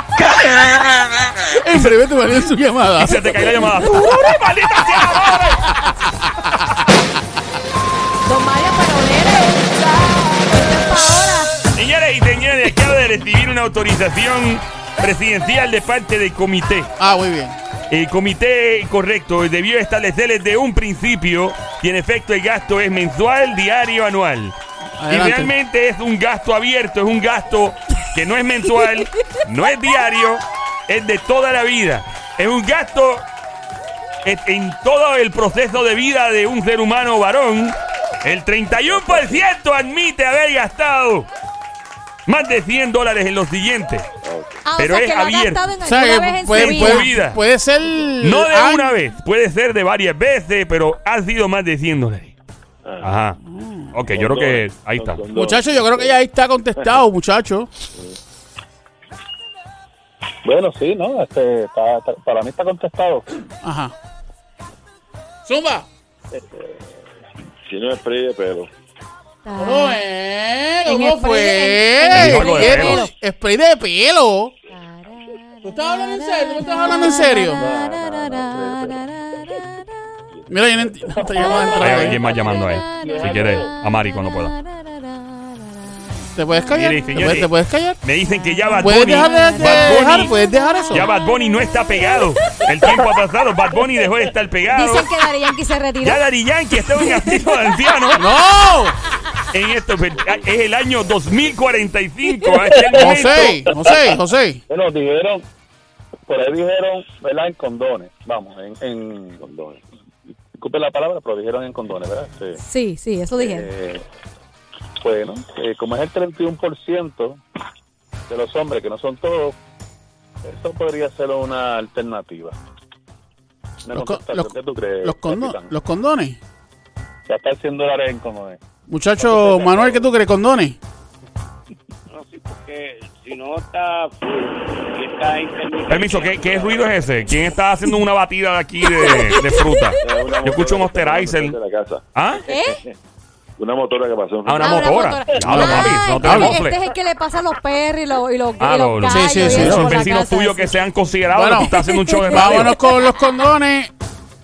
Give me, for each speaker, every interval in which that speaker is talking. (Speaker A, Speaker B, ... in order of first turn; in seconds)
Speaker A: 1.4-3.3, 17.0-17.6, 25.0-25.5, 45.8-48.9, 53.4-53.9, 55.3-57.7, 63.6-63.9, 65.5-65.9, 69.6-74.5, 75.6-77.6, 80.5-82.2, 86.3-88.0, 88.8-91.0, 98.2-99.0, 102.9-104.6, 123.9-126.4, 128.9-130.8, 145.5-146.6, 149.1-150.1, 151.3-151.7, 152.3-153.9
Speaker B: 1.7-2.0, 3.0-5.8, 11.7-16.9, 17.9-33.3, 34.2-41.3, 42.2-44.0, 44.8-45.6, 46.5-47.4, 48.2-52.3, 53.0-53.4, 53.9-55.2, 72.1-73.0, 81.8-84.5, 86.7-87.5, 88.0-90.3, 90.9-95.1, 96.0-98.3, 99.5-103.7, 135.9-141.6, 142.1-142.4, 144.4-146.8, 148.6-152.8
Speaker C: 8.2-11.6, 44.6-47.1, 69.4-70.0, 70.8-73.1, 74.7-79.8, 81.3-86.3, 88.2-93.1, 94.7-96.2, 96.8-97.9, 112.6-113.7, 138.8-140.0, 142.5-142.8, 144.6-150.7, 151.6-153.0
Speaker D: 38.8-39.4, 44.2-44.6, 52.8-53.1, 54.1-56.2, 67.7-68.7, 77.6-77.9, 109.4-109.8, 140.0-142.0, 143.6-145.1
Speaker E: 60.4-63.3, 66.3-66.6, 77.6-79.0, 81.1-83.7, 104.7-105.4, 106.3-109.4, 110.6-112.6, 113.4-114.0, 115.0-117.4, 118.3-119.6, 120.4-122.6, 123.8-125.7, 127.3-128.6
Speaker F: 132.1-137.3